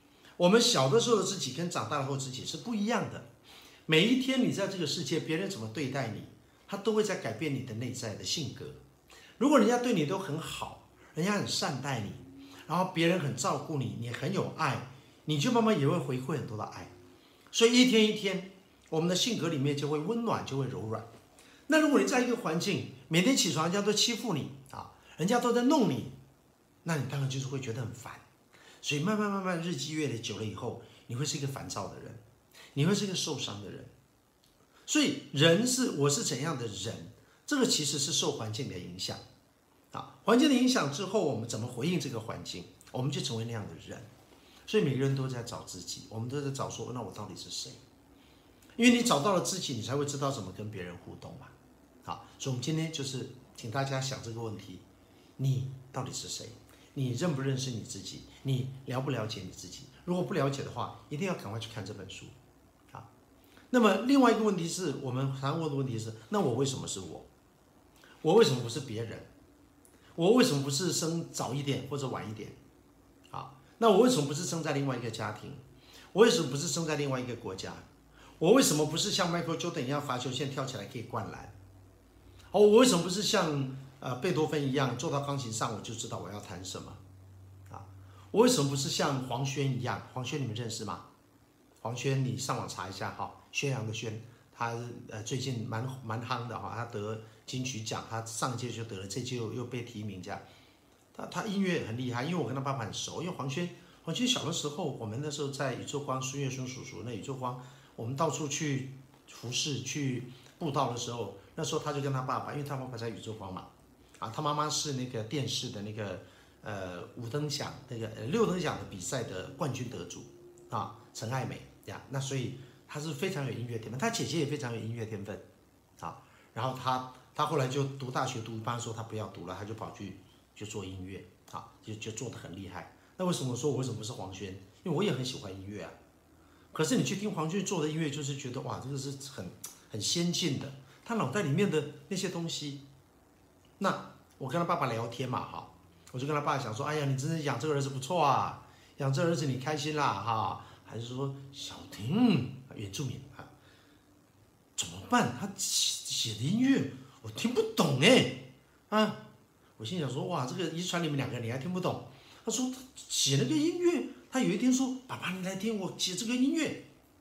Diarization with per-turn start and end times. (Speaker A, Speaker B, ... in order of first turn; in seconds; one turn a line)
Speaker A: 0.4-3.3
Speaker A: 3.9-8.8
Speaker A: 9.4-16.9
Speaker A: 17.5-21.1
Speaker A: 21.7-26.1
Speaker A: 26.8-28.2
Speaker A: 28.8-32.2
Speaker A: 32.7-33.9
Speaker A: 34.9-39.2
Speaker A: 39.9-44.0
Speaker A: 44.6-47.8
Speaker A: 48.8-51.5
Speaker A: 52.0-54.8
Speaker A: 55.4-62.3
Speaker A: 63.7-67.3
Speaker A: 68.2-69.3
Speaker A: 70.2-72.6
Speaker A: 73.3-75.6
Speaker A: 76.1-77.8
Speaker A: 78.4-81.5
Speaker A: 82.5-87.0
Speaker A: 87.7-91.0
Speaker A: 91.8-100.4
Speaker A: 101.1-113.7
Speaker A: 114.2-125.4
Speaker A: 126.0-135.9
Speaker A: 136.7-142.8
Speaker A: 143.8-153.5
Speaker A: 154.8-159.2
Speaker A: 159.8-166.8